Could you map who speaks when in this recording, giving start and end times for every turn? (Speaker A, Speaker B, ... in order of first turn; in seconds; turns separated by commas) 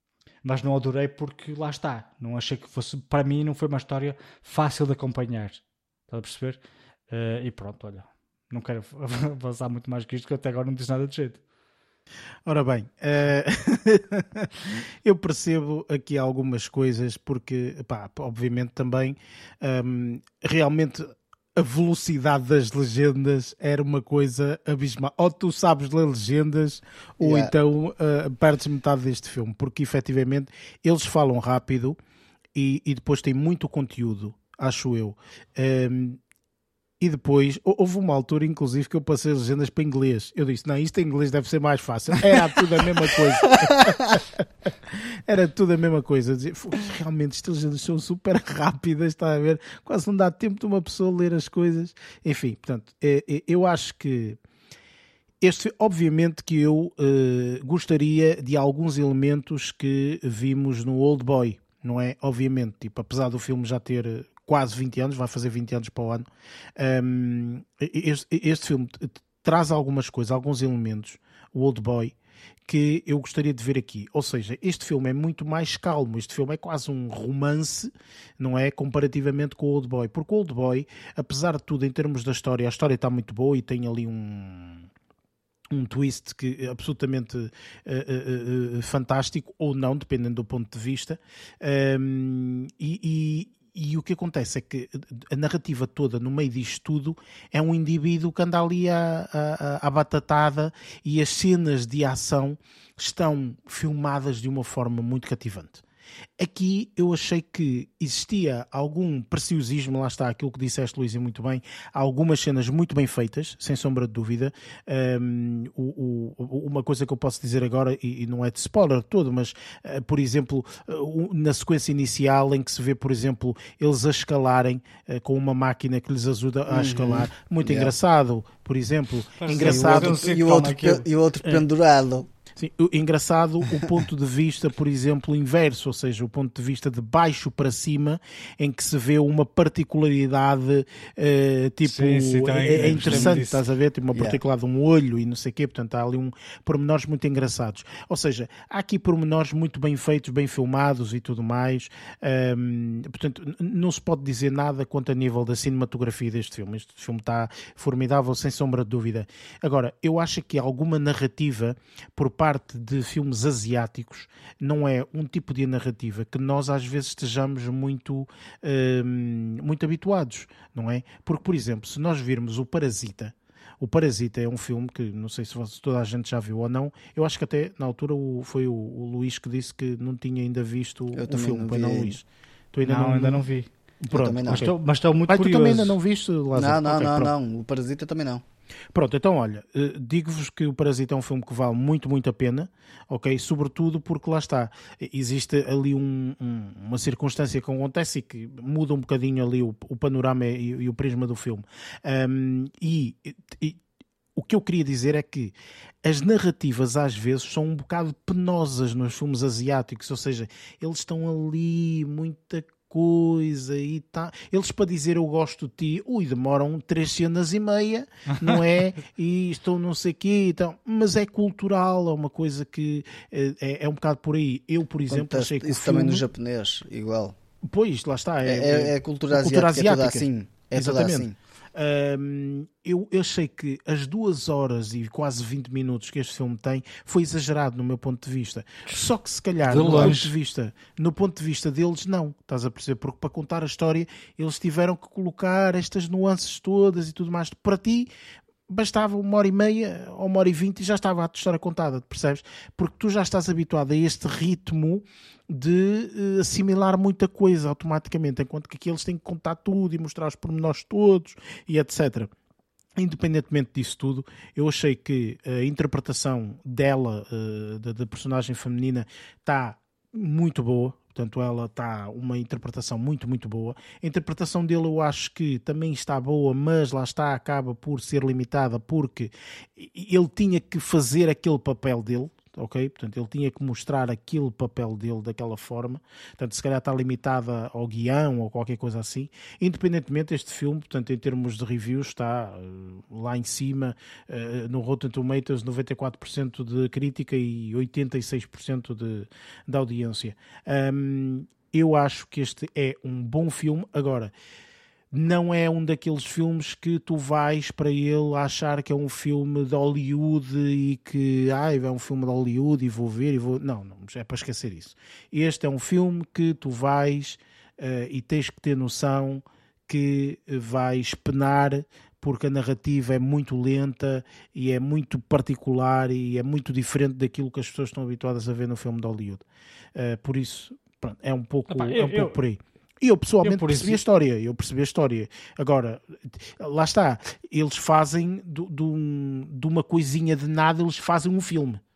Speaker A: 0.4-11.4, Speaker B: 12.4-32.0, Speaker C: 27.2-27.5, Speaker B: 32.5-36.2, Speaker B: 37.0-54.4, Speaker B: 55.4-72.1, Speaker B: 72.7-84.9, Speaker B: 85.7-105.8, Speaker B: 106.4-130.4, Speaker C: 126.7-127.9, Speaker A: 129.4-131.0, Speaker C: 129.6-132.3, Speaker B: 132.6-183.4, Speaker A: 141.8-143.6, Speaker C: 142.7-143.4, Speaker C: 181.1-182.2, Speaker A: 182.8-183.7, Speaker B: 184.0-184.7, Speaker C: 184.1-184.7, Speaker A: 184.5-186.0, Speaker B: 185.3-187.3, Speaker C: 186.5-188.4, Speaker B: 188.9-203.8, Speaker B: 204.3-226.2, Speaker C: 225.1-227.3, Speaker B: 227.6-248.1, Speaker C: 228.4-231.3, Speaker A: 239.7-240.3, Speaker B: 248.7-262.3, Speaker B: 262.9-304.3, Speaker B: 305.1-329.4, Speaker B: 329.9-341.8, Speaker A: 331.7-332.4, Speaker A: 333.4-334.0